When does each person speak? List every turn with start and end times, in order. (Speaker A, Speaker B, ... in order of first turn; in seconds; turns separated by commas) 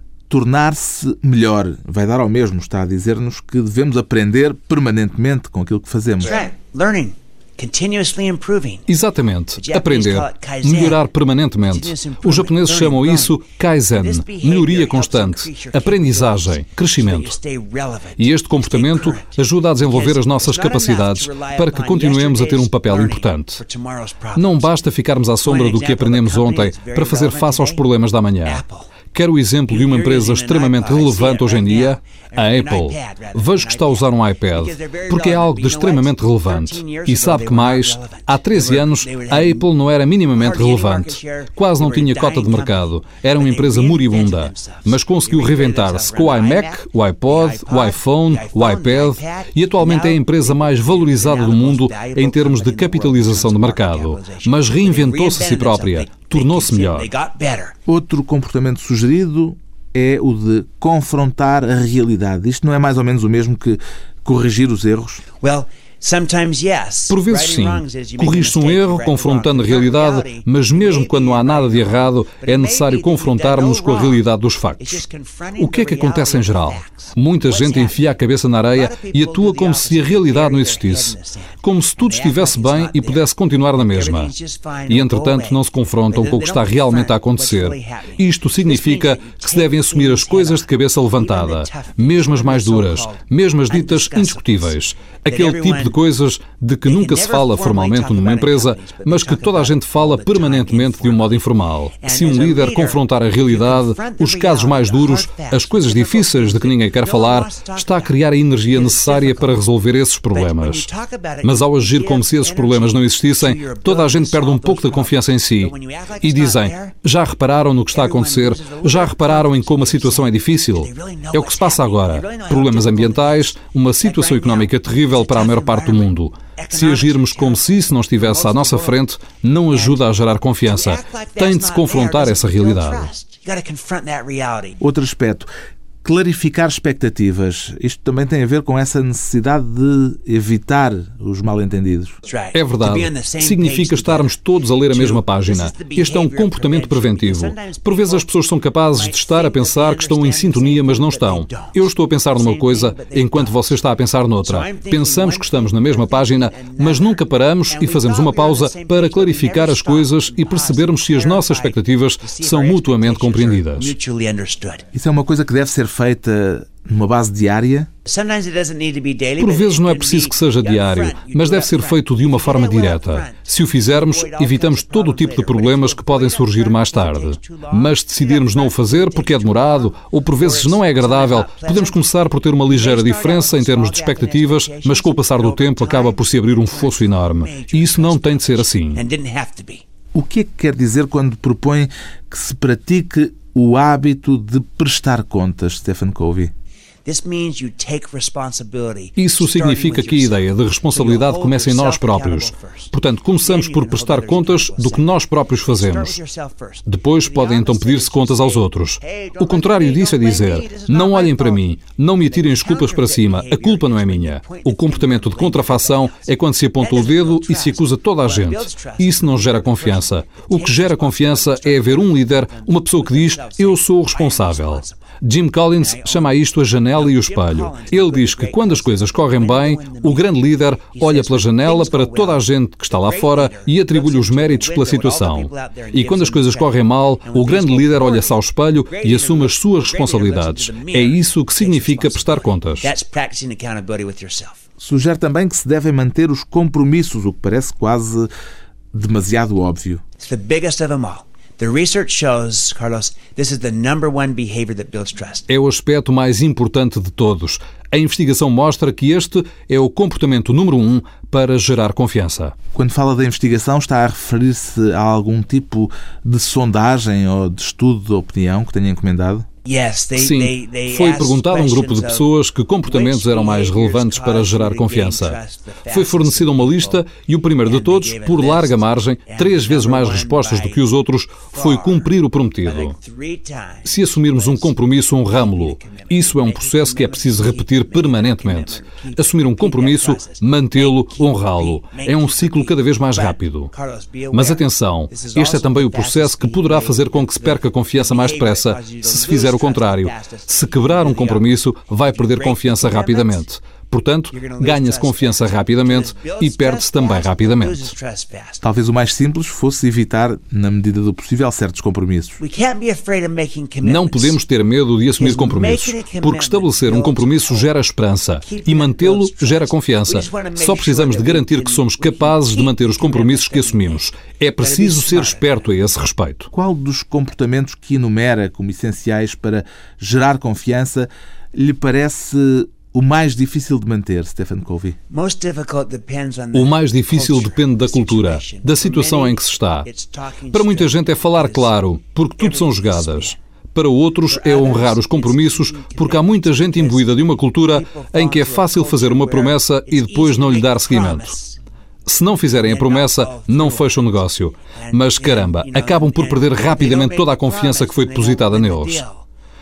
Speaker A: 0.3-6.3, Speaker B: 6.2-8.9, Speaker C: 8.9-17.4, Speaker B: 9.6-11.0, Speaker B: 11.7-13.4, Speaker B: 14.0-24.7, Speaker C: 18.2-23.6, Speaker C: 24.4-57.1, Speaker B: 25.4-27.8, Speaker B: 28.4-28.9, Speaker B: 29.7-39.7, Speaker B: 40.3-57.8, Speaker A: 57.9-65.2, Speaker B: 65.4-74.2, Speaker C: 67.1-75.0, Speaker B: 74.8-78.1, Speaker C: 75.6-84.3, Speaker B: 78.7-96.0, Speaker C: 84.9-110.9, Speaker B: 96.9-101.5, Speaker B: 102.0-109.6, Speaker B: 110.3-117.0, Speaker C: 111.4-133.1, Speaker B: 117.9-129.0, Speaker B: 129.7-130.0, Speaker B: 130.7-134.8, Speaker A: 134.8-135.5, Speaker A: 136.0-142.2, Speaker B: 142.2-148.3, Speaker C: 142.5-163.9, Speaker B: 148.9-153.8, Speaker B: 154.4-164.9, Speaker A: 164.9-167.9, Speaker B: 168.1-182.1, Speaker C: 169.4-189.0, Speaker B: 182.7-189.8, Speaker A: 190.1-196.5, Speaker B: 197.1-211.7, Speaker C: 199.2-206.2, Speaker C: 206.9-242.9, Speaker B: 212.2-225.0, Speaker B: 225.8-244.6, Speaker A: 244.8-248.3, Speaker A: 248.9-250.0, Speaker B: 250.2-255.5, Speaker C: 255.5-262.6, Speaker A: 262.7-269.5, Speaker B: 269.6-272.3, Speaker C: 270.2-283.0, Speaker B: 272.8-277.1, Speaker B: 277.6-280.8, Speaker B: 281.5-303.4, Speaker C: 283.9-293.7, Speaker C: 294.3-307.9, Speaker B: 304.3-308.6, Speaker A: 308.6-312.4, Speaker B: 312.4-314.4, Speaker C: 313.8-326.5, Speaker B: 315.2-317.7, Speaker B: 318.4-324.1, Speaker B: 324.6-325.7, Speaker A: 326.5-335.0, Speaker B: 335.1-341.7, Speaker C: 336.5-339.9, Speaker C: 340.5-351.4, Speaker B: 342.4-343.4, Speaker B: 344.3-351.6, Speaker C: 352.1-359.0, Speaker B: 352.5-359.2